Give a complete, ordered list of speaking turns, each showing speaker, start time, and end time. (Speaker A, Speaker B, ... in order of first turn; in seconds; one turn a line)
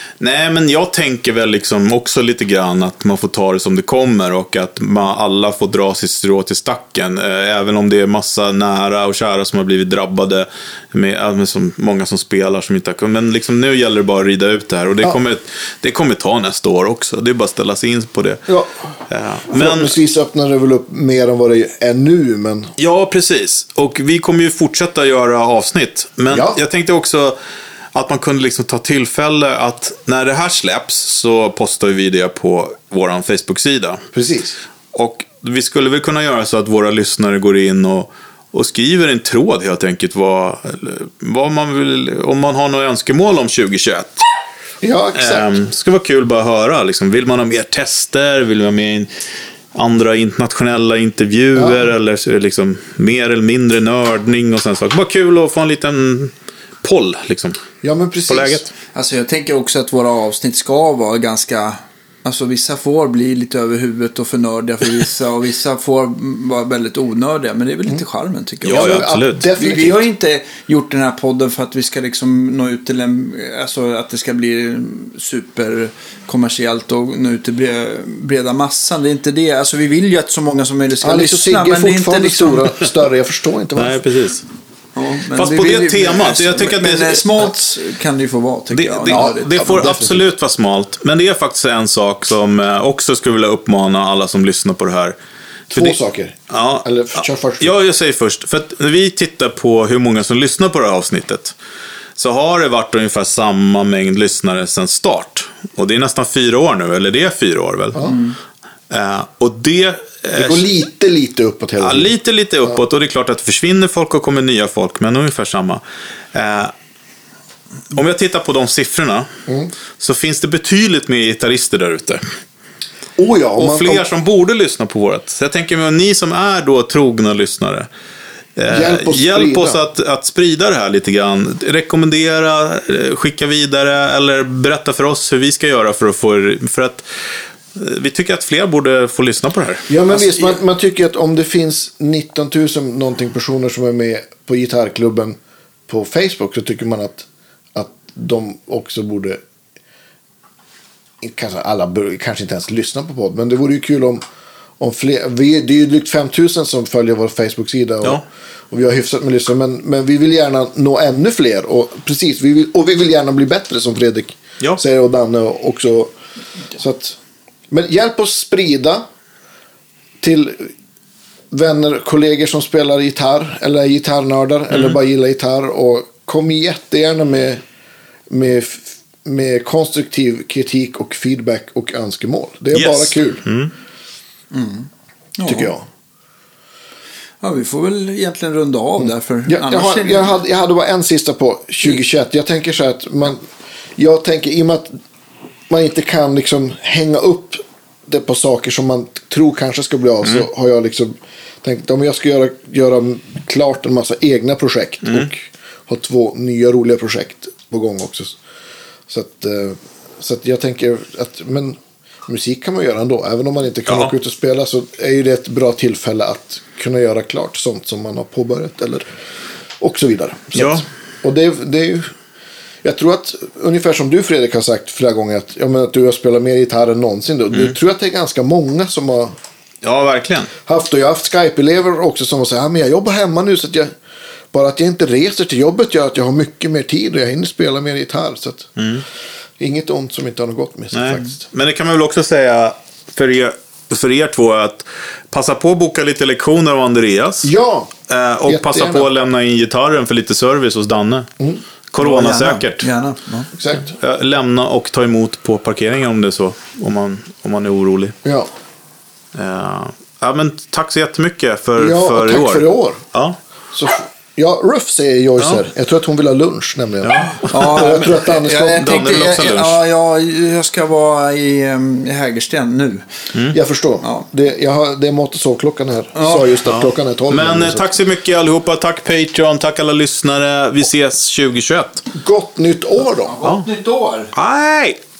Speaker A: 0.2-18.4
Speaker B: 18.5-18.8
Speaker A: 19.1-20.0
Speaker B: 19.5-22.7
Speaker A: 22.8-27.4
Speaker B: 26.3-26.6
Speaker A: 27.9-34.0
Speaker B: 34.1-34.6
Speaker A: 34.9-44.2
Speaker B: 44.8-45.6
Speaker A: 45.1-49.1
Speaker A: 49.7-57.6
Speaker B: 51.5-51.8
Speaker B: 57.8-58.6
Speaker A: 58.3-58.7
Speaker C: 58.9-82.8
Speaker A: 68.6-69.5
Speaker B: 68.7-70.0
Speaker B: 81.0-84.0
Speaker A: 83.8-84.4
Speaker C: 85.0-90.0
Speaker A: 85.3-87.3
Speaker A: 88.7-95.2
Speaker B: 89.1-90.2
Speaker B: 95.7-97.7
Speaker A: 95.7-96.0
Speaker A: 96.5-101.5
Speaker A: 102.2-108.1
Speaker C: 108.0-108.3
Speaker A: 108.9-110.7
Speaker B: 110.3-112.1
Speaker A: 111.8-115.8
Speaker A: 116.3-116.7
Speaker A: 117.9-119.3
Speaker A: 120.0-122.2
Speaker B: 123.2-124.0
Speaker A: 123.6-127.9
Speaker A: 128.6-137.0
Speaker B: 128.7-129.8
Speaker A: 137.7-139.9
Speaker B: 139.9-149.4
Speaker C: 140.1-140.6
Speaker B: 151.2-154.2
Speaker B: 154.8-166.1
Speaker B: 166.7-167.2
Speaker B: 167.7-169.0
Speaker B: 170.2-170.7
Speaker B: 171.5-177.6
Speaker A: 174.7-175.0
Speaker B: 178.3-183.4
Speaker A: 182.7-183.7
Speaker C: 184.5-185.7
Speaker B: 185.4-185.8
Speaker C: 187.4-190.4
Speaker B: 189.5-194.9
Speaker B: 195.7-208.4
Speaker B: 209.1-219.1
Speaker A: 213.9-214.1
Speaker B: 219.8-222.1
Speaker A: 220.5-220.8
Speaker B: 222.8-229.3
Speaker A: 229.8-230.5
Speaker B: 230.6-233.9
Speaker B: 234.5-238.7
Speaker A: 238.8-239.0
Speaker B: 239.6-241.4
Speaker A: 240.9-247.5
Speaker B: 247.4-247.9
Speaker A: 248.1-251.3
Speaker B: 248.4-249.1
Speaker A: 251.9-252.9
Speaker C: 252.0-253.5
Speaker B: 253.6-253.9
Speaker A: 253.9-258.1
Speaker B: 258.2-258.5
Speaker A: 259.3-263.4
Speaker B: 261.8-263.0
Speaker B: 263.7-268.9
Speaker A: 267.0-267.9
Speaker C: 267.5-273.0
Speaker A: 268.8-269.8
Speaker B: 273.5-277.9
Speaker C: 274.0-274.3
Speaker C: 276.1-276.5
Speaker A: 276.6-282.0
Speaker B: 282.1-283.3
Speaker C: 283.2-284.3
Speaker A: 284.3-285.0